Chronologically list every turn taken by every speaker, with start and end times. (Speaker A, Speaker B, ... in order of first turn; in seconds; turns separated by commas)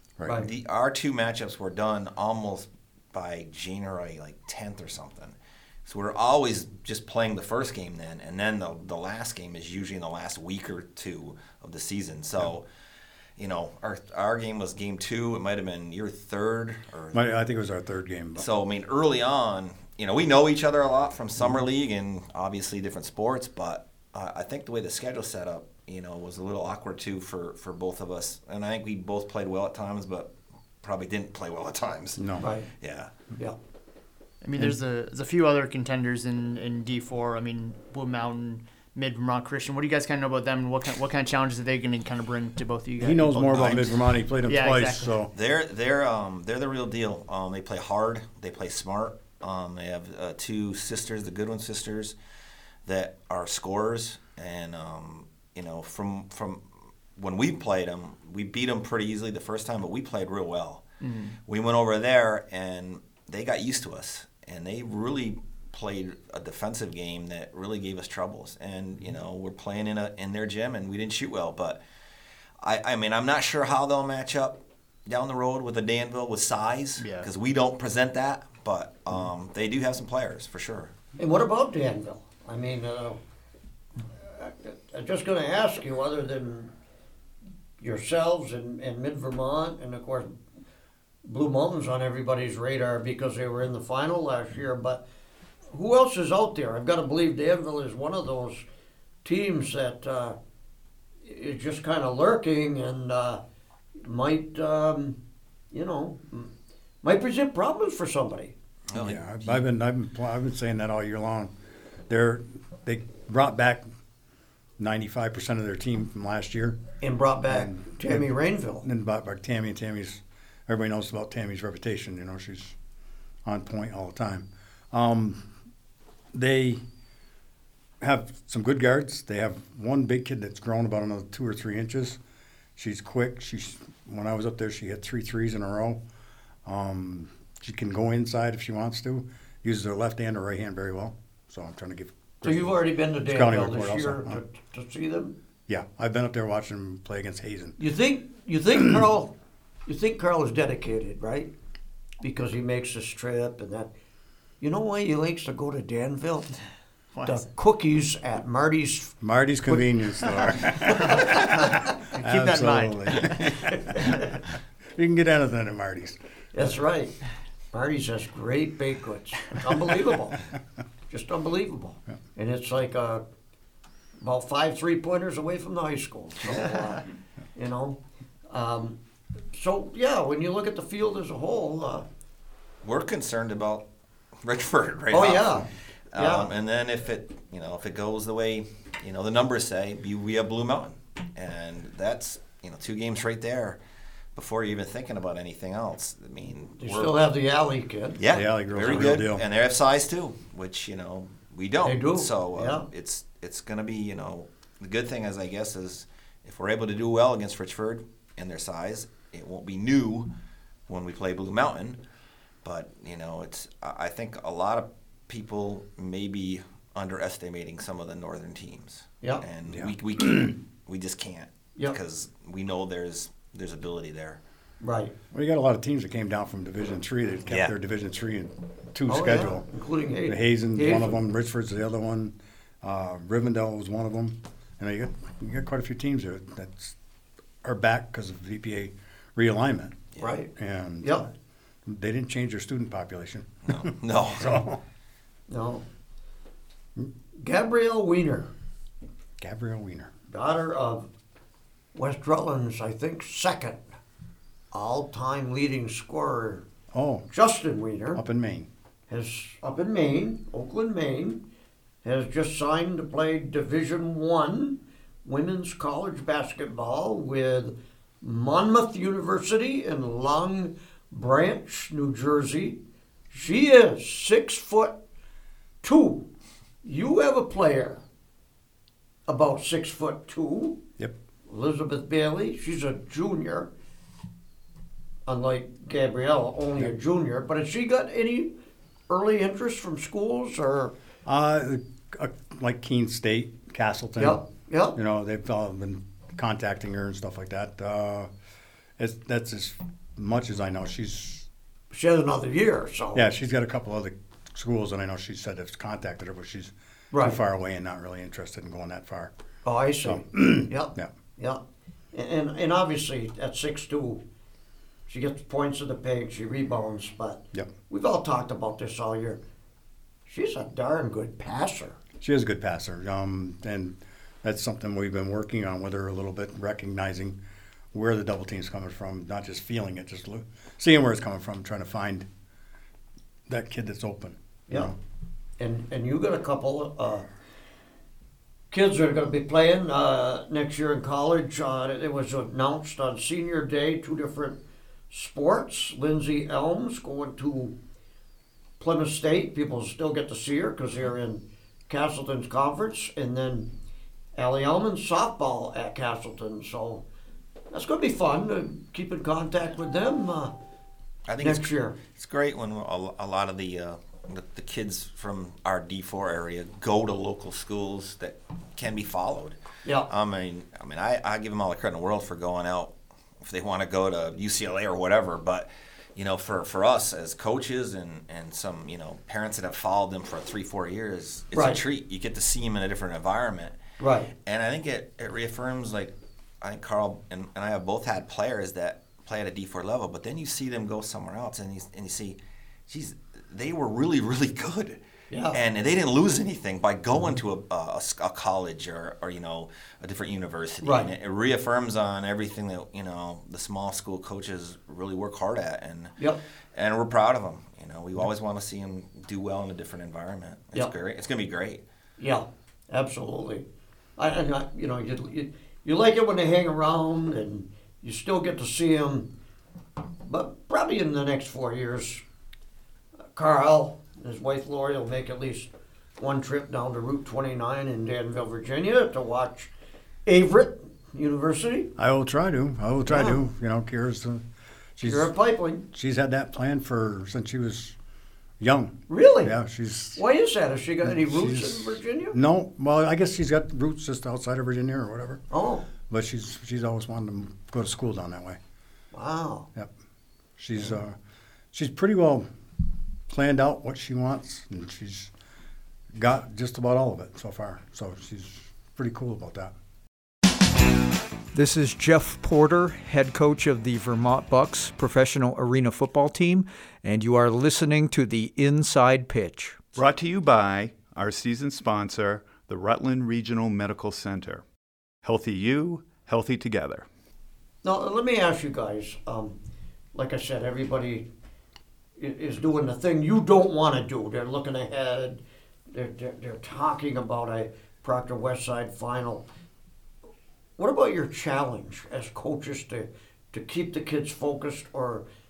Speaker A: 0.4-12.6, Speaker A: 13.4-17.2, Speaker B: 17.1-18.5, Speaker A: 18.4-32.3, Speaker B: 32.2-32.5, Speaker C: 32.4-32.7, Speaker A: 32.8-33.1, Speaker D: 34.4-45.2, Speaker B: 43.0-45.3, Speaker A: 43.5-43.8, Speaker A: 45.3-52.1, Speaker A: 52.9-56.6, Speaker A: 57.1-60.8, Speaker D: 61.0-61.4, Speaker A: 61.5-71.8, Speaker A: 72.6-80.9, Speaker D: 77.0-77.3, Speaker C: 81.2-83.2, Speaker C: 84.2-86.7, Speaker C: 87.8-90.3, Speaker C: 91.2-95.0, Speaker C: 95.7-98.6, Speaker C: 99.2-100.4, Speaker C: 101.2-103.4, Speaker C: 104.0-105.2, Speaker C: 105.7-106.5, Speaker C: 107.0-108.5, Speaker A: 108.9-109.6, Speaker B: 108.9-111.5, Speaker B: 112.1-113.8, Speaker B: 114.8-116.8, Speaker C: 117.0-118.8, Speaker B: 117.5-118.3, Speaker B: 118.8-122.7, Speaker B: 123.4-125.4, Speaker B: 126.3-126.8, Speaker B: 128.0-132.2, Speaker B: 132.8-136.0, Speaker B: 136.6-144.4, Speaker C: 142.4-145.3, Speaker B: 145.7-147.8, Speaker C: 147.8-149.3, Speaker C: 149.8-151.5, Speaker C: 152.2-153.9, Speaker C: 154.6-156.6, Speaker D: 157.1-157.5, Speaker C: 157.2-159.2, Speaker B: 159.2-164.2, Speaker C: 160.9-161.2, Speaker D: 161.4-163.6, Speaker B: 164.9-166.7, Speaker C: 166.5-167.1, Speaker C: 167.7-170.4, Speaker C: 171.1-173.2, Speaker C: 174.2-177.0, Speaker C: 177.6-178.0, Speaker C: 178.5-179.0, Speaker C: 179.5-182.1, Speaker A: 182.8-183.8, Speaker A: 184.4-193.8, Speaker C: 185.1-186.5, Speaker A: 194.3-197.2, Speaker C: 196.8-198.2, Speaker A: 198.2-210.3, Speaker B: 198.3-199.4, Speaker C: 201.8-202.8, Speaker A: 210.9-212.0, Speaker A: 212.6-224.4, Speaker B: 219.7-220.5, Speaker C: 224.8-225.1, Speaker B: 225.3-229.7, Speaker A: 227.5-227.7, Speaker C: 229.1-231.2, Speaker B: 230.2-236.9, Speaker B: 237.6-241.3, Speaker C: 240.2-240.5, Speaker C: 241.0-241.3, Speaker B: 241.8-244.8, Speaker A: 243.7-244.6, Speaker C: 245.5-245.8, Speaker C: 247.3-248.5, Speaker B: 249.4-250.1, Speaker C: 250.3-251.1, Speaker C: 251.9-253.8, Speaker C: 254.7-256.6, Speaker B: 256.9-257.2, Speaker C: 257.3-258.2, Speaker B: 258.1-258.7, Speaker C: 259.1-261.4, Speaker C: 262.0-272.8, Speaker C: 273.3-275.0, Speaker C: 275.8-276.2, Speaker C: 276.8-278.0, Speaker C: 279.3-280.8, Speaker C: 281.5-283.7, Speaker C: 285.3-288.5, Speaker C: 289.1-290.9, Speaker B: 291.2-294.4, Speaker C: 294.2-295.0, Speaker B: 294.9-298.3, Speaker B: 299.0-301.5, Speaker C: 301.9-303.2, Speaker B: 303.1-309.3, Speaker C: 307.1-307.4, Speaker C: 309.6-311.6, Speaker B: 310.0-311.1, Speaker C: 312.1-314.2, Speaker C: 315.1-319.4, Speaker C: 320.3-322.0, Speaker B: 322.2-327.4, Speaker B: 327.9-332.3, Speaker B: 333.5-334.9, Speaker C: 335.6-337.3, Speaker C: 338.7-344.6, Speaker C: 345.1-347.7, Speaker C: 348.8-353.7, Speaker C: 354.3-357.0, Speaker C: 357.7-360.5, Speaker A: 361.3-383.8, Speaker C: 361.4-362.0, Speaker C: 381.5-381.8, Speaker C: 384.0-384.3, Speaker A: 384.4-395.0, Speaker C: 395.3-395.6, Speaker A: 395.5-406.1, Speaker C: 400.8-401.1, Speaker A: 406.7-411.8, Speaker C: 412.2-413.6, Speaker C: 414.2-419.3, Speaker C: 420.2-422.2, Speaker C: 423.3-429.7, Speaker C: 430.2-431.9, Speaker B: 432.0-434.4, Speaker C: 433.1-433.4, Speaker B: 434.9-435.3, Speaker C: 435.0-435.8, Speaker B: 435.9-437.9, Speaker B: 438.6-440.2, Speaker C: 439.1-439.5, Speaker C: 440.1-442.4, Speaker B: 441.0-445.4, Speaker C: 445.5-445.9, Speaker B: 446.1-448.6, Speaker C: 449.1-449.7, Speaker B: 450.6-451.1, Speaker B: 451.7-452.5, Speaker B: 453.3-455.3, Speaker B: 456.1-459.7, Speaker E: 461.5-469.9, Speaker F: 469.9-474.6, Speaker F: 475.2-477.1, Speaker C: 477.8-479.6, Speaker C: 480.1-481.3, Speaker C: 482.2-489.4, Speaker C: 490.8-495.2